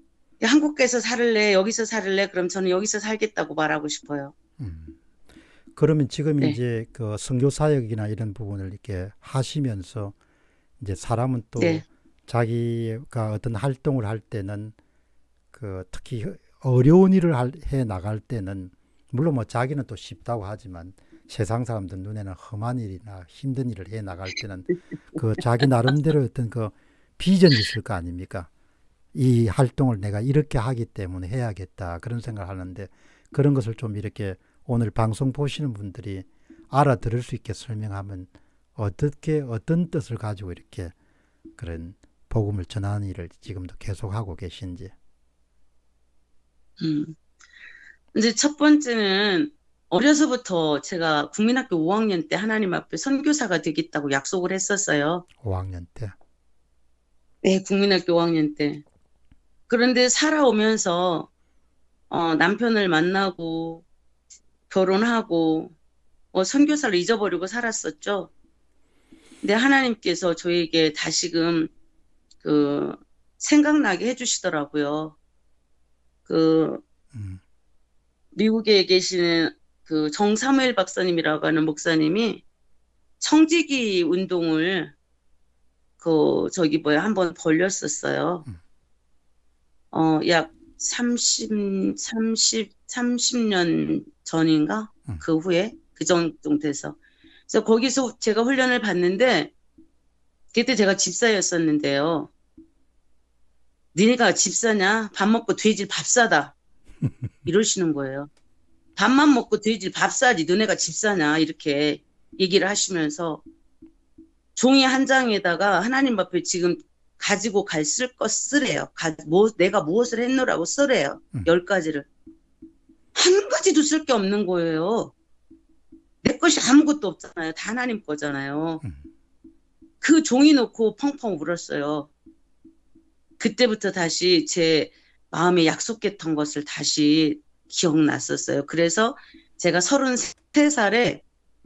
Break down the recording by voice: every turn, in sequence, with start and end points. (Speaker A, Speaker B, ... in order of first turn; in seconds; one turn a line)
Speaker A: 0.4-4.3
Speaker B: 4.6-5.0
Speaker B: 5.8-10.1
Speaker B: 10.8-14.8
Speaker A: 11.6-11.8
Speaker B: 15.5-28.5
Speaker B: 29.1-40.9
Speaker B: 41.6-44.9
Speaker A: 46.8-47.2
Speaker A: 48.1-55.2
Speaker B: 55.4-56.1
Speaker A: 57.4-58.8
Speaker A: 59.7-61.3
Speaker A: 62.1-63.8
Speaker A: 64.7-65.7
Speaker A: 66.3-68.3
Speaker A: 69.4-71.7
Speaker A: 72.4-75.1
Speaker A: 76.3-76.8
Speaker B: 77.1-77.4
Speaker A: 78.3-82.4
Speaker A: 83.2-84.9
Speaker A: 86.0-88.5
Speaker A: 89.9-97.0
Speaker A: 97.5-99.5
Speaker A: 100.5-102.3
Speaker A: 104.0-106.5
Speaker A: 107.5-108.3
Speaker A: 109.0-113.4
Speaker A: 114.6-122.1
Speaker A: 123.1-125.1
Speaker A: 126.2-128.8
Speaker A: 130.0-132.1
Speaker A: 133.4-141.2